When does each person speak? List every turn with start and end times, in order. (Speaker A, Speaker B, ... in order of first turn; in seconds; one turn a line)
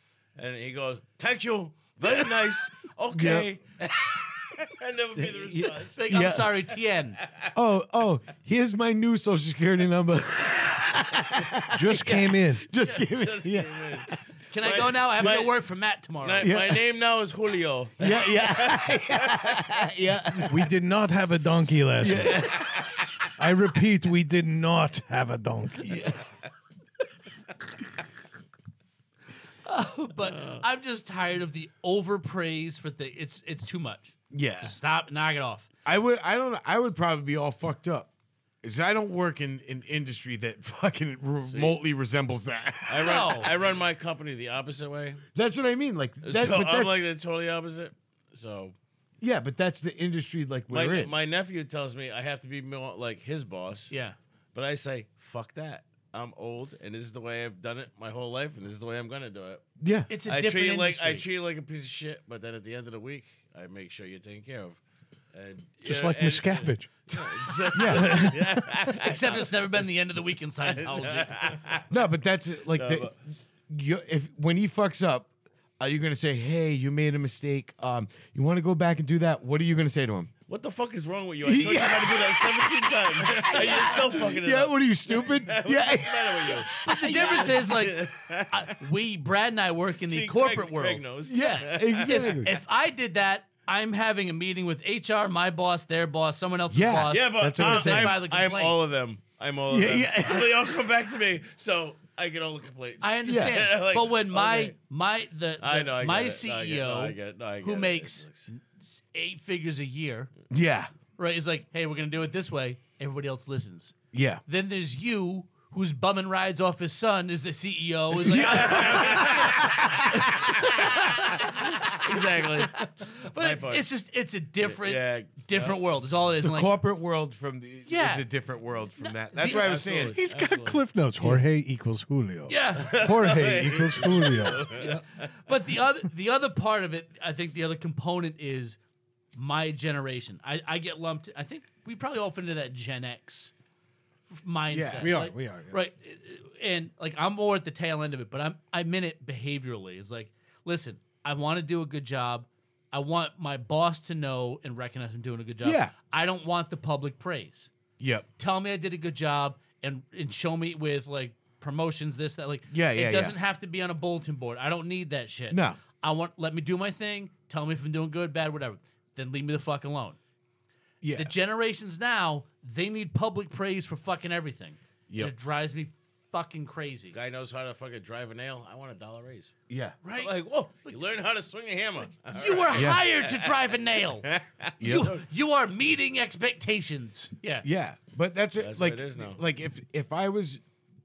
Speaker A: 0.4-6.0
Speaker B: 3.1-3.5
Speaker B: 5.2-6.5
Speaker C: 5.9-7.2
Speaker A: 7.2-7.5
Speaker B: 7.5-14.2
Speaker D: 11.7-12.7
Speaker A: 12.9-14.1
Speaker C: 14.5-16.5
Speaker A: 14.6-15.6
Speaker A: 16.2-19.7
Speaker B: 16.4-16.8
Speaker B: 18.0-20.7
Speaker D: 20.4-22.6
Speaker B: 22.0-23.0
Speaker D: 23.4-26.2
Speaker B: 25.9-26.2
Speaker C: 29.6-35.7
Speaker B: 34.3-34.8
Speaker B: 35.9-38.1
Speaker B: 38.6-43.4
Speaker A: 41.4-41.8
Speaker A: 42.9-45.2
Speaker C: 43.0-43.5
Speaker B: 45.4-47.0
Speaker A: 46.2-48.8
Speaker B: 49.2-51.1
Speaker A: 50.7-53.9
Speaker C: 53.9-54.2
Speaker A: 54.5-64.8
Speaker B: 59.8-60.1
Speaker C: 60.1-61.3
Speaker A: 65.3-70.0
Speaker D: 65.8-66.9
Speaker B: 67.1-68.4
Speaker D: 67.7-68.9
Speaker C: 69.0-71.6
Speaker A: 70.6-71.9
Speaker B: 71.9-73.2
Speaker A: 72.7-73.1
Speaker B: 73.7-80.3
Speaker A: 80.5-88.7
Speaker B: 81.4-87.6
Speaker C: 83.6-84.0
Speaker C: 86.8-91.0
Speaker A: 90.1-92.5
Speaker B: 91.3-92.5
Speaker C: 92.0-98.8
Speaker B: 96.7-98.2
Speaker A: 97.1-104.8
Speaker B: 99.7-100.7
Speaker C: 103.0-110.3
Speaker B: 103.3-103.6
Speaker A: 105.6-108.5
Speaker B: 110.5-110.9
Speaker C: 111.2-114.0
Speaker B: 114.1-114.4
Speaker C: 114.5-126.7
Speaker B: 118.2-121.0
Speaker A: 118.5-119.7
Speaker A: 121.9-123.8
Speaker A: 124.6-125.8
Speaker B: 126.4-130.2
Speaker C: 127.9-128.3
Speaker C: 129.0-129.8
Speaker A: 129.4-130.8
Speaker D: 130.1-134.7
Speaker C: 132.5-133.1
Speaker A: 132.8-135.0
Speaker C: 134.7-138.8
Speaker C: 139.3-143.5
Speaker C: 144.4-157.7
Speaker B: 144.7-145.1
Speaker D: 145.0-145.8
Speaker B: 155.6-155.9
Speaker B: 158.0-158.3
Speaker C: 158.4-170.2
Speaker B: 162.7-163.4
Speaker B: 165.5-165.8
Speaker B: 171.0-171.3
Speaker C: 171.1-177.2
Speaker B: 175.1-175.3
Speaker A: 177.1-179.5
Speaker B: 179.7-180.0
Speaker C: 180.0-180.3
Speaker A: 180.2-183.6
Speaker C: 182.3-187.7
Speaker B: 182.7-183.0
Speaker A: 184.2-185.2
Speaker B: 184.8-185.1
Speaker B: 187.6-190.6
Speaker A: 188.6-189.4